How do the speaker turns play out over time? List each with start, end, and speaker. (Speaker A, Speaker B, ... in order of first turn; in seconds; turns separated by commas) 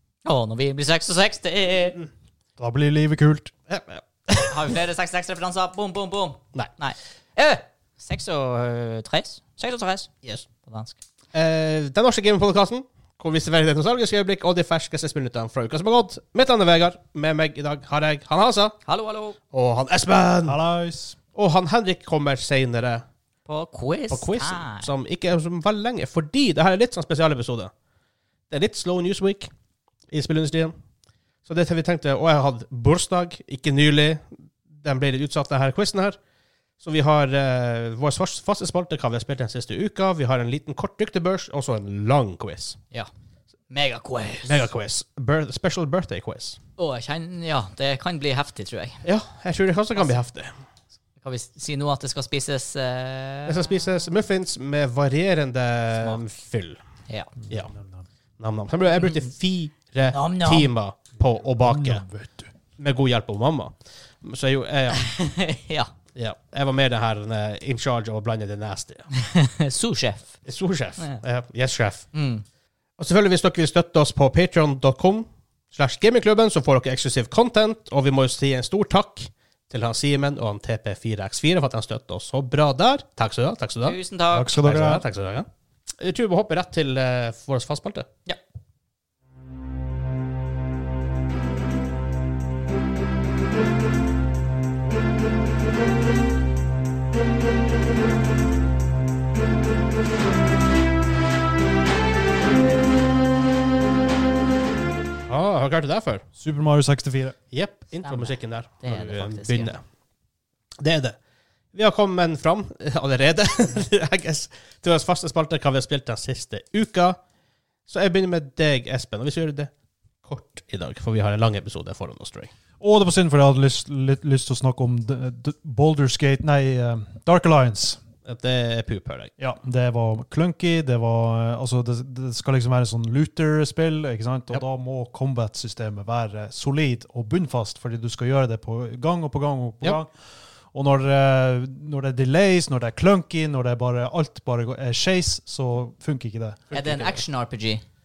Speaker A: 0.2-2.0, Speaker B: 2.6-3.5, Speaker C: 3.7-4.7, Speaker A: 4.5-10.1, Speaker A: 10.6-11.0, Speaker C: 11.3-18.8, Speaker A: 18.9-19.4, Speaker C: 19.5-20.6, Speaker B: 20.5-21.2, Speaker C: 21.4-23.0, Speaker A: 23.5-24.9, Speaker C: 24.1-27.7, Speaker C: 28.5-29.5, Speaker C: 30.1-30.8, Speaker C: 31.5-36.2, Speaker C: 36.8-42.8, Speaker A: 43.7-44.7, Speaker C: 44.5-46.6, Speaker A: 46.8-49.0, Speaker C: 49.0-50.5, Speaker A: 51.2-53.7, Speaker C: 53.5-56.8, Speaker C: 58.4-62.0, Speaker A: 60.1-60.7, Speaker B: 61.6-62.5, Speaker C: 62.8-65.0, Speaker A: 64.9-65.9, Speaker C: 66.2-69.1, Speaker A: 69.2-70.4, Speaker C: 70.5-72.1, Speaker A: 72.1-72.5, Speaker C: 73.0-84.0, Speaker A: 83.8-84.6, Speaker B: 84.3-85.0, Speaker C: 84.6-85.5, Speaker C: 86.0-88.1, Speaker C: 105.3-106.2, Speaker B: 106.4-107.4, Speaker C: 107.5-109.8, Speaker A: 108.0-109.7, Speaker C: 110.8-111.2, Speaker C: 111.7-117.2, Speaker C: 117.9-119.7, Speaker C: 120.2-122.5, Speaker B: 122.8-128.0, Speaker C: 128.2-129.3, Speaker B: 129.4-140.2, Speaker B: 140.7-146.6, Speaker C: 146.7-147.2, Speaker A: 146.7-147.8